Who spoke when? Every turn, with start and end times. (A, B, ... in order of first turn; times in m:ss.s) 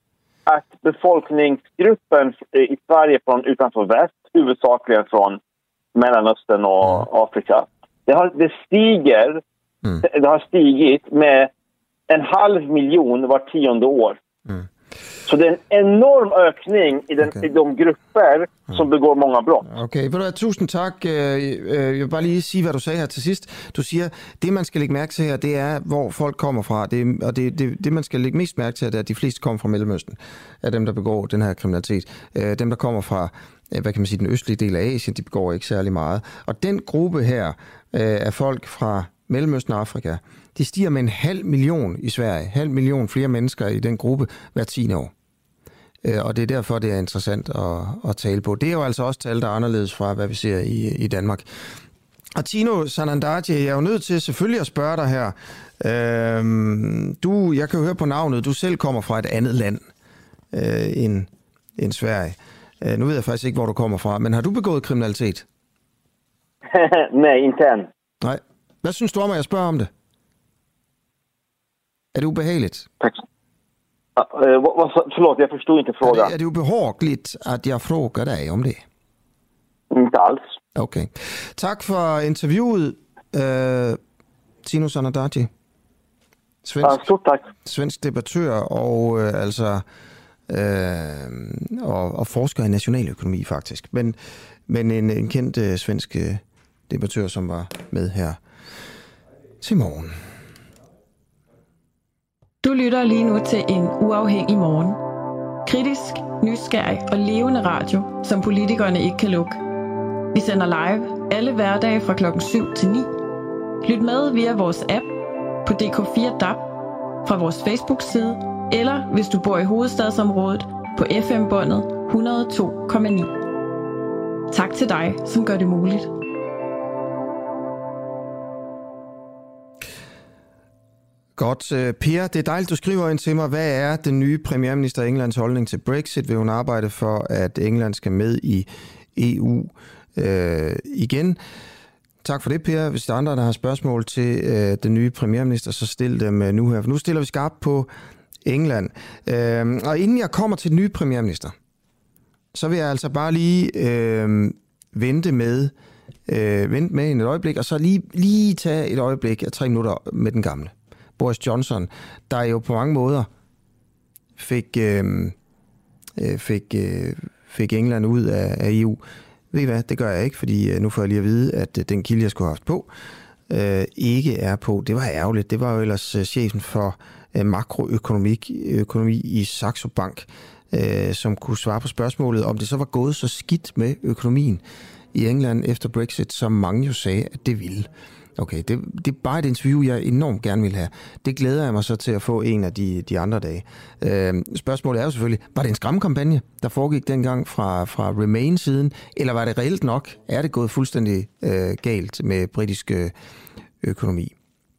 0:00.5-0:05.4 A
0:06.0-0:09.4 A
0:10.0-0:11.5 A
0:12.1-0:14.2 A
0:15.3-0:19.7 A
0:19.7-0:45.1 B
0:46.0-0:51.7 B
0:52.4-0:59.9 B
1:00.5-1:05.4 B
1:06.7-1:07.9 A
1:08.2-1:09.9 B
1:12.1-1:12.9 B
1:14.2-1:16.3 A
1:16.0-1:18.8 B
1:19.9-1:20.4 A
1:20.8-1:24.0 B
1:24.6-1:25.5 B
1:26.6-1:27.1 B
1:26.8-1:27.4 A
1:27.6-1:29.8 B
1:30.5-1:38.4 B
1:39.6-1:40.2 B
1:42.6-1:45.0 C
1:45.6-1:49.6 C
1:50.3-1:53.1 C
1:53.8-1:55.1 C
1:55.6-1:56.7 C
1:57.2-2:03.4 C
2:04.5-2:06.1 C
2:11.4-2:21.4 B
2:22.2-2:27.9 B
2:28.4-2:31.5 B
2:32.5-2:35.7 B
2:36.3-2:43.3 B
2:44.4-2:45.4 B
2:46.2-2:49.0 B
2:49.5-2:52.9 B
2:53.5-3:04.6 B
3:05.1-3:23.1 B
3:23.8-3:24.4 B